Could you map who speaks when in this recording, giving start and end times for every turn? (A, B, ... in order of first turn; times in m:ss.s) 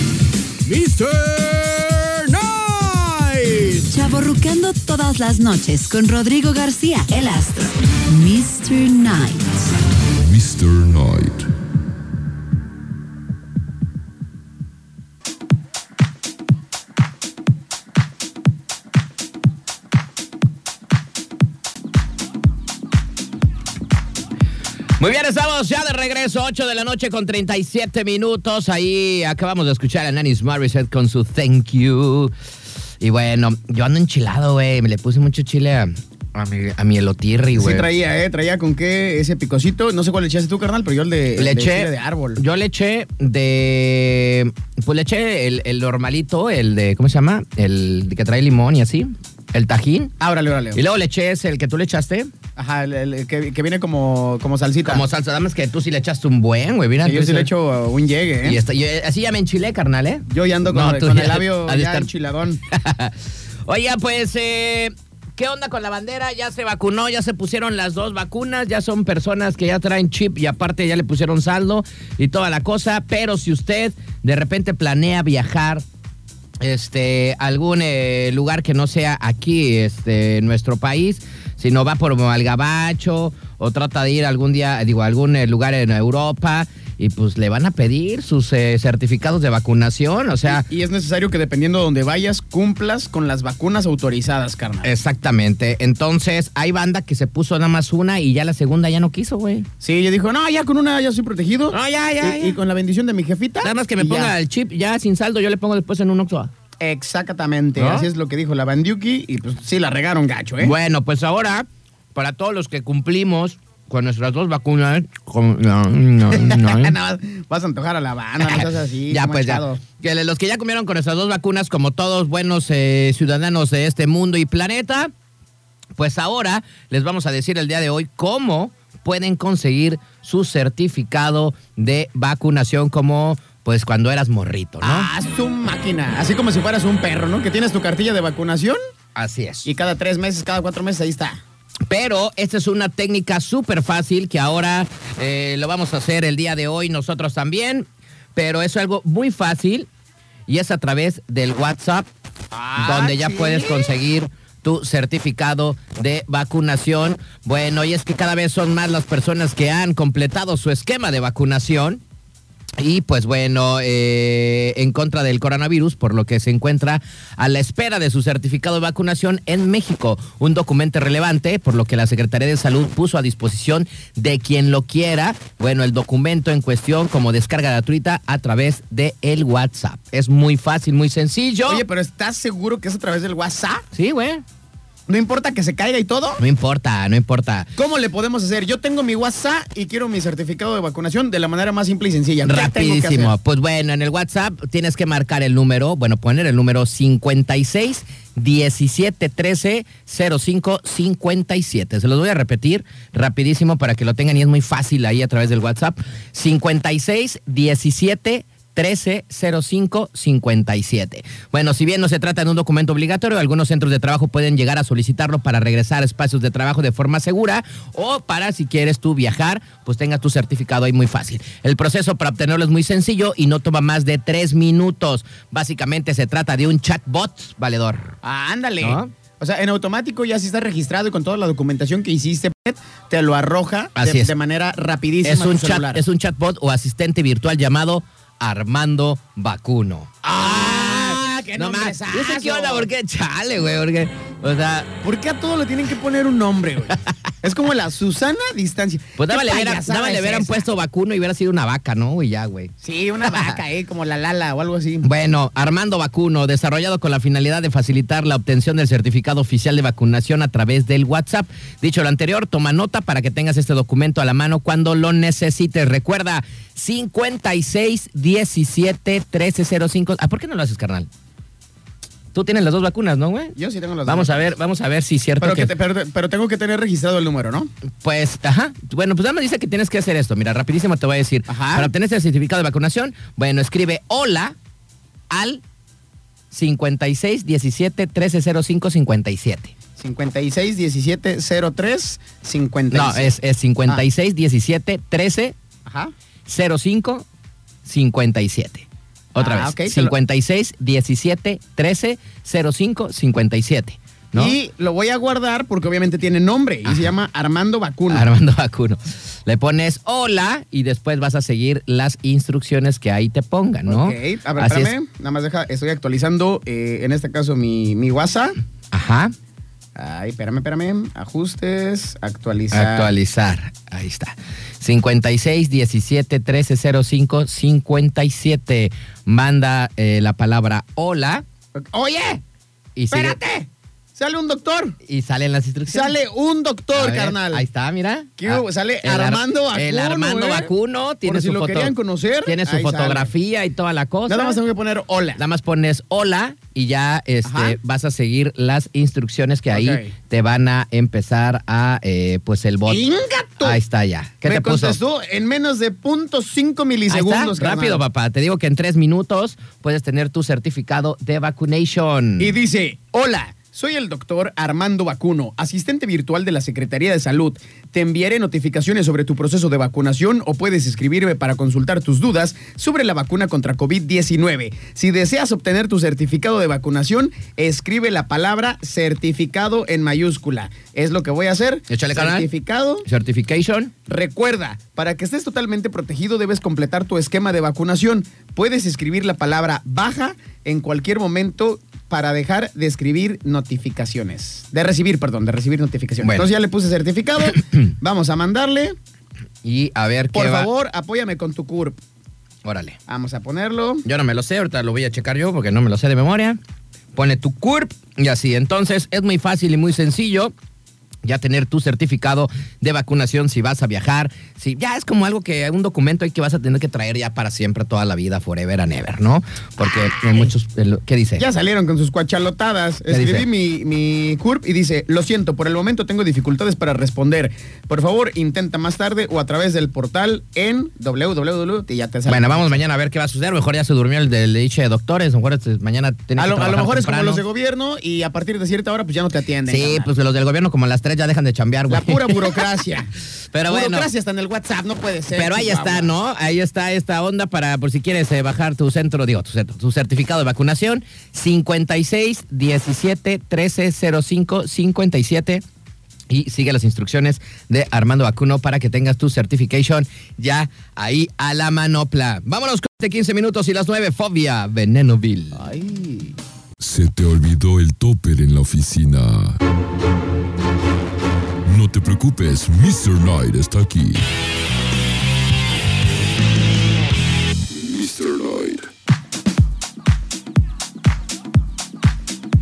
0:00.6-0:03.9 A
0:03.9-0:09.7 B
0:10.1-0:11.5 C
0:25.0-0:32.3 D
0:33.0-0:37.9 D
0:37.6-0:42.4 E
0:41.4-0:50.1 D
0:50.2-0:50.8 E
0:50.8-0:52.3 D
0:52.6-0:55.0 E
0:54.8-0:57.5 D
0:57.0-0:58.6 E
0:58.4-1:02.1 D
1:00.3-1:02.6 E
1:02.7-1:15.8 D
1:16.6-1:30.7 D
1:30.4-1:34.9 E
1:34.8-1:39.7 D
1:39.8-1:44.3 E
1:41.7-1:42.6 D
1:43.6-1:46.5 D
1:46.8-1:50.7 E
1:47.8-1:48.1 D
1:50.6-1:57.0 D
1:56.3-1:59.8 E
1:58.4-2:05.1 D
2:06.0-2:15.1 D
2:14.8-2:18.8 E
2:19.2-2:19.7 D
2:19.7-2:21.4 E
2:21.9-2:29.9 D
2:30.5-2:32.1 D
2:32.5-2:34.0 E
2:32.8-2:42.0 D
2:42.8-3:01.8 D
3:01.7-3:03.8 E
3:03.9-3:04.4 D
3:05.1-3:06.4 E
3:06.4-3:07.7 D
3:07.8-3:13.3 E
3:12.4-3:48.2 D
3:48.2-3:56.0 E
3:48.8-3:49.1 D
3:54.0-3:54.3 D
3:55.2-4:04.9 D
4:00.2-4:02.9 E
4:05.0-4:10.7 E
4:09.2-4:12.7 D
4:12.8-4:15.1 E
4:15.0-4:31.1 D
4:32.3-4:35.7 D
4:33.6-4:34.5 E
4:35.4-4:37.7 E
4:38.0-4:44.6 D
4:41.5-4:41.9 E
4:45.3-4:45.6 D
4:46.5-4:49.7 D
4:50.0-4:53.3 E
4:52.9-4:55.6 D
4:55.9-4:56.1 E
4:56.5-4:57.3 D
4:57.8-5:04.6 D
4:59.4-5:00.1 E
5:04.3-5:08.3 E
5:08.1-5:14.9 D
5:13.9-5:18.6 E
5:18.9-5:19.3 D
5:20.0-5:23.1 E
5:22.7-5:31.4 D
5:31.8-5:32.4 E
5:33.0-5:33.4 D
5:33.1-5:35.0 E
5:35.1-5:36.2 D
5:35.9-5:37.6 E
5:36.9-5:41.9 D
5:38.4-5:40.7 E
5:41.2-5:43.3 E
5:42.5-5:44.6 D
5:44.3-5:45.4 E
5:45.4-5:53.0 D
5:47.4-5:47.8 E
5:49.7-5:50.1 E
5:52.9-5:53.8 E
5:53.6-5:55.0 D
5:54.4-5:58.0 E
5:57.1-6:02.5 D
6:02.4-6:23.1 E
6:21.9-6:22.5 D
6:23.0-6:23.9 D
6:24.1-6:39.0 E
6:36.2-6:36.5 D
6:39.6-6:40.7 D
6:40.3-6:42.0 E
6:42.6-6:43.0 D
6:43.1-6:44.0 E
6:44.0-6:46.6 D
6:47.2-6:50.5 D
6:51.2-7:01.5 D
6:59.8-7:00.5 E
7:01.4-7:12.8 E
7:03.1-7:03.5 D
7:12.3-7:17.4 D
7:16.4-7:20.1 E
7:19.7-7:22.6 D
7:21.9-7:23.1 E
7:23.5-7:24.1 D
7:23.7-7:26.1 E
7:25.3-7:35.6 D
7:36.3-7:45.6 D
7:45.5-7:46.4 E
7:46.8-7:49.6 C
7:51.7-7:54.3 C
7:57.7-7:58.9 C